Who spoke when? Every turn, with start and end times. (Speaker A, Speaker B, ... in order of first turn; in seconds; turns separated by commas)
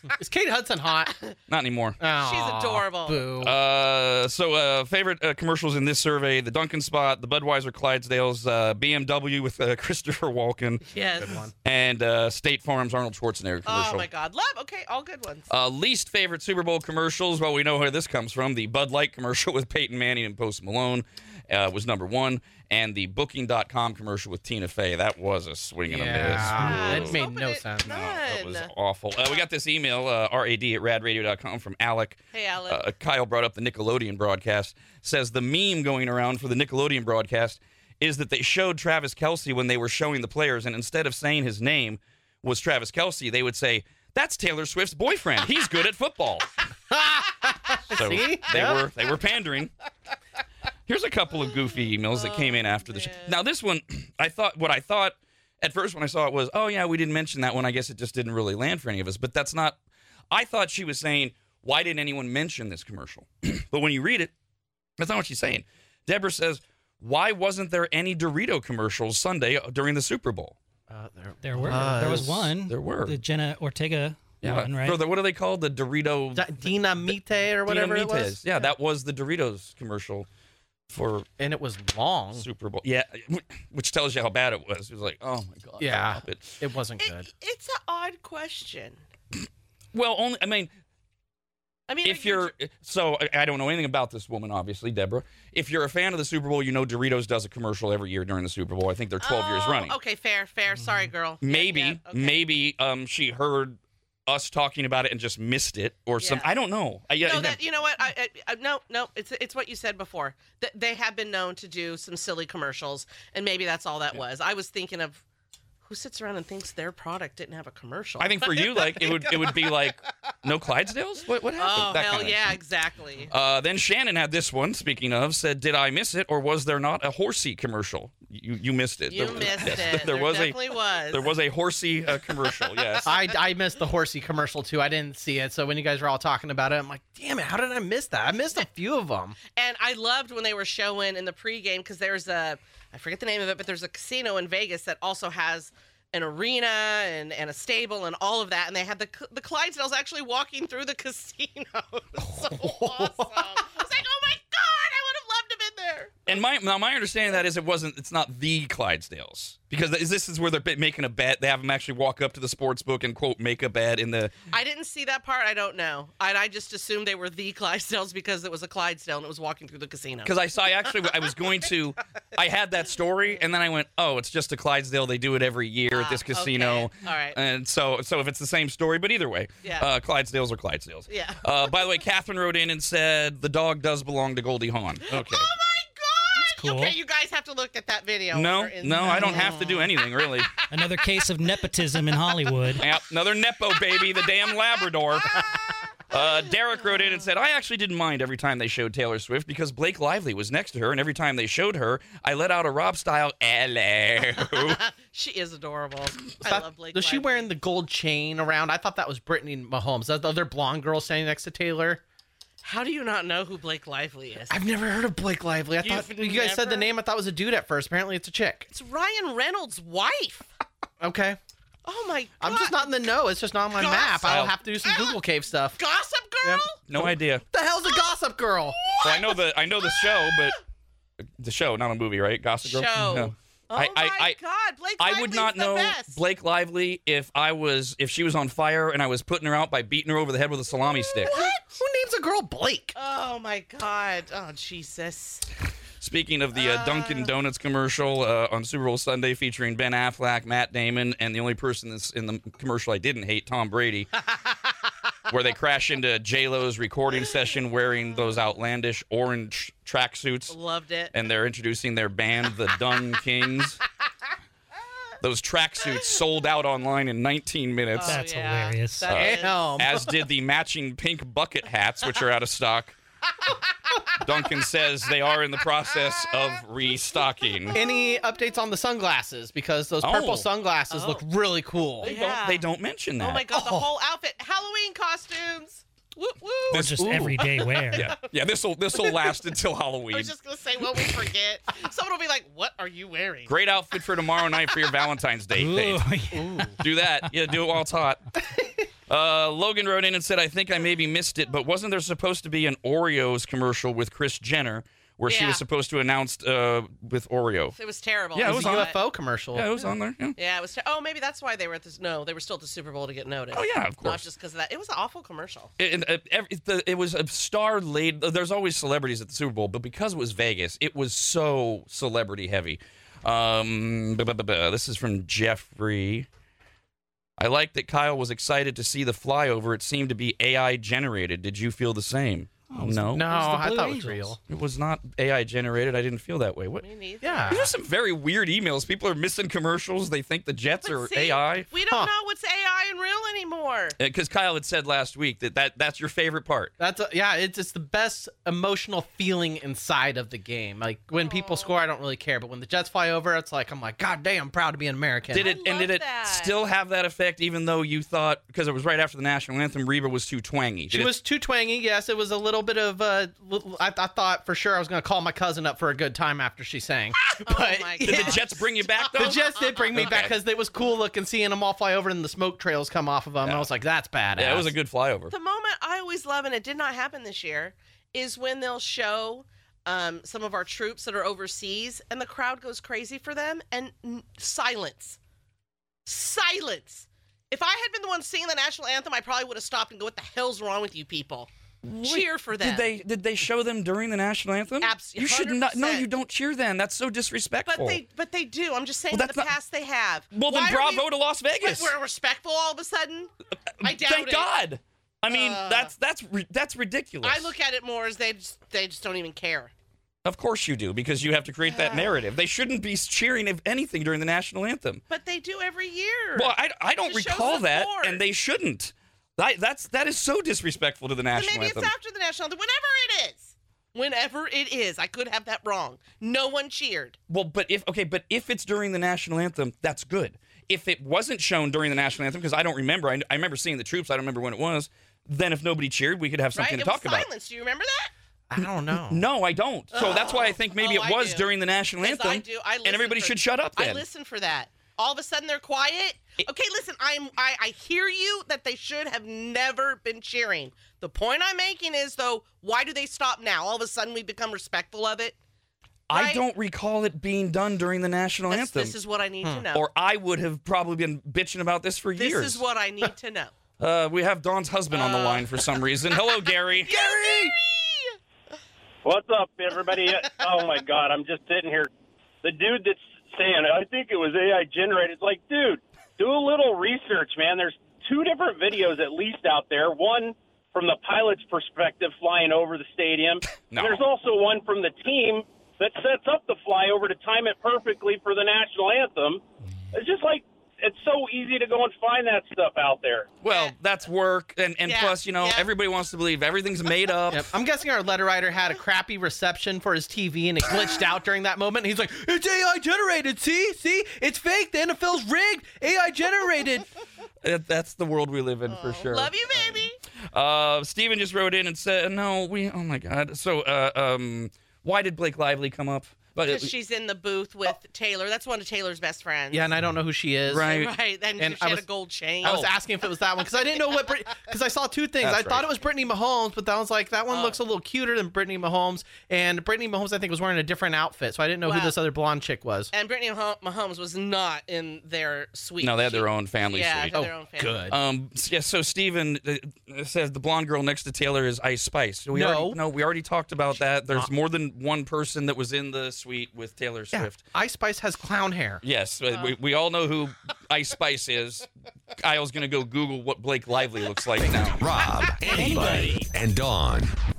Speaker A: 0.2-1.1, Speaker B: 1.5-2.0, Speaker A: 2.0-3.5, Speaker C: 2.2-3.3, Speaker B: 3.4-10.8, Speaker C: 10.9-11.4, Speaker A: 11.2-11.5, Speaker B: 11.6-14.1, Speaker C: 13.7-15.5, Speaker B: 15.5-27.2, Speaker A: 25.9-27.9, Speaker C: 26.5-28.7, Speaker B: 27.9-46.5, Speaker C: 32.3-32.8, Speaker A: 46.9-48.8, Speaker B: 47.9-49.7, Speaker B: 50.9-59.8, Speaker C: 52.1-53.4, Speaker B: 60.3-64.3, Speaker B: 65.0-70.6, Speaker A: 70.9-72.5, Speaker D: 71.4-75.0, Speaker B: 71.8-73.2, Speaker B: 74.4-77.0, Speaker A: 76.3-78.4, Speaker B: 77.6-80.3, Speaker B: 80.9-81.3, Speaker A: 81.4-82.5, Speaker B: 82.4-86.6, Speaker A: 85.8-87.3, Speaker C: 87.0-89.0, Speaker B: 89.9-90.7, Speaker C: 91.9-92.5, Speaker B: 92.0-99.9, Speaker C: 99.2-102.4, Speaker B: 101.4-107.6, Speaker C: 106.2-106.5, Speaker C: 107.2-115.2, Speaker C: 115.8-119.8, Speaker B: 118.2-122.6, Speaker C: 121.6-123.3, Speaker B: 123.3-133.2, Speaker C: 129.1-131.3, Speaker A: 133.1-139.4, Speaker C: 139.6-156.4, Speaker A: 152.6-153.3, Speaker B: 156.3-164.3, Speaker C: 164.5-170.3, Speaker B: 170.2-185.5, Speaker C: 175.9-177.4, Speaker C: 179.6-179.9, Speaker C: 181.1-181.7, Speaker C: 185.0-190.0, Speaker D: 186.4-187.0, Speaker B: 188.3-190.5, Speaker A: 189.2-189.7, Speaker D: 190.7-192.8, Speaker B: 192.8-195.4, Speaker C: 193.9-194.2, Speaker B: 196.1-204.8, Speaker C: 204.5-207.5, Speaker A: 206.4-212.0, Speaker C: 212.6-214.6, Speaker A: 214.5-218.7, Speaker C: 215.8-216.9, Speaker C: 218.7-220.5, Speaker A: 221.0-221.4, Speaker C: 221.8-222.9, Speaker A: 222.4-225.8, Speaker C: 223.7-225.2, Speaker B: 224.2-224.5, Speaker C: 225.8-226.8, Speaker A: 226.4-228.8, Speaker B: 226.9-227.4, Speaker C: 228.8-230.6, Speaker B: 229.0-230.6, Speaker B: 231.4-234.4, Speaker C: 232.6-236.2, Speaker B: 235.0-241.3, Speaker C: 241.2-241.8, Speaker A: 241.3-242.9, Speaker C: 242.9-245.5, Speaker B: 246.0-254.1, Speaker C: 246.6-247.3, Speaker B: 255.3-260.6, Speaker C: 260.5-261.1, Speaker B: 261.1-263.8, Speaker B: 265.2-268.2, Speaker C: 267.9-269.9, Speaker D: 268.1-269.1, Speaker B: 269.1-273.0, Speaker A: 269.1-270.1, Speaker C: 273.4-274.1, Speaker B: 274.2-277.8, Speaker A: 277.7-282.1, Speaker B: 280.0-280.5, Speaker C: 280.9-281.2, Speaker B: 282.0-283.5, Speaker C: 282.0-282.6, Speaker C: 283.2-288.1, Speaker A: 283.5-283.9, Speaker B: 286.7-287.4, Speaker D: 286.7-288.1, Speaker A: 287.0-287.4, Speaker B: 287.9-290.3, Speaker C: 288.9-289.4, Speaker C: 290.1-293.5, Speaker B: 293.5-296.0, Speaker D: 295.6-296.8, Speaker A: 296.3-296.8, Speaker B: 296.8-298.4, Speaker B: 299.1-307.8, Speaker C: 305.3-305.6, Speaker C: 307.8-309.0, Speaker B: 308.4-309.0, Speaker A: 308.4-309.7, Speaker B: 309.5-310.4, Speaker C: 310.4-315.7, Speaker B: 313.5-314.2, Speaker B: 315.8-326.3, Speaker B: 327.4-333.3, Speaker D: 332.7-334.3, Speaker A: 333.1-334.4, Speaker B: 334.5-336.9, Speaker C: 336.8-337.7, Speaker A: 337.2-337.7, Speaker B: 337.5-341.7, Speaker C: 340.8-344.0, Speaker B: 344.0-346.7, Speaker A: 346.8-355.5, Speaker C: 351.2-351.8, Speaker C: 355.3-356.6, Speaker B: 355.3-361.1, Speaker A: 360.9-368.4, Speaker C: 367.4-369.8, Speaker B: 368.0-369.4, Speaker A: 369.1-374.7, Speaker B: 369.9-370.3, Speaker B: 374.4-375.3, Speaker C: 375.3-385.2, Speaker C: 386.1-391.5, Speaker B: 391.8-398.0, Speaker C: 392.0-392.9, Speaker C: 394.8-396.1, Speaker C: 397.7-403.3, Speaker B: 399.1-399.5, Speaker B: 400.3-401.9, Speaker C: 403.8-404.5, Speaker B: 403.8-407.5, Speaker C: 405.3-405.9, Speaker C: 407.2-409.7, Speaker B: 410.2-415.0, Speaker C: 411.6-412.2, Speaker C: 415.1-418.2, Speaker B: 416.4-421.9, Speaker C: 421.3-427.2, Speaker B: 427.3-437.3, Speaker C: 436.6-438.1, Speaker A: 438.5-439.2, Speaker B: 438.9-444.0, Speaker C: 439.9-441.5, Speaker C: 442.0-455.4, Speaker B: 456.1-458.9, Speaker C: 456.1-456.4, Speaker C: 458.5-459.9, Speaker B: 459.7-462.6, Speaker C: 462.2-463.5, Speaker B: 463.8-466.9, Speaker C: 464.9-465.5, Speaker C: 466.8-468.2, Speaker A: 466.9-467.6, Speaker E: 469.0-471.9, Speaker E: 472.4-493.3, Speaker B: 483.7-484.1, Speaker B: 493.4-497.5, Speaker C: 493.5-493.8, Speaker C: 494.9-495.7, Speaker A: 497.3-506.9, Speaker B: 507.4-516.7, Speaker C: 508.7-510.0, Speaker C: 516.4-519.6, Speaker A: 519.5-520.8, Speaker B: 520.5-520.9, Speaker C: 520.6-522.7, Speaker A: 521.4-521.8, Speaker A: 522.4-532.9, Speaker B: 525.2-525.7, Speaker C: 527.3-527.6, Speaker C: 531.6-532.0, Speaker C: 532.9-537.9, Speaker B: 535.8-537.2, Speaker A: 537.1-538.0, Speaker B: 537.9-547.5, Speaker A: 542.3-542.8, Speaker A: 543.8-544.3, Speaker A: 547.1-548.8, Speaker B: 548.8-551.7, Speaker B: 552.2-554.8, Speaker F: 554.8-557.1, Speaker A: 555.5-556.1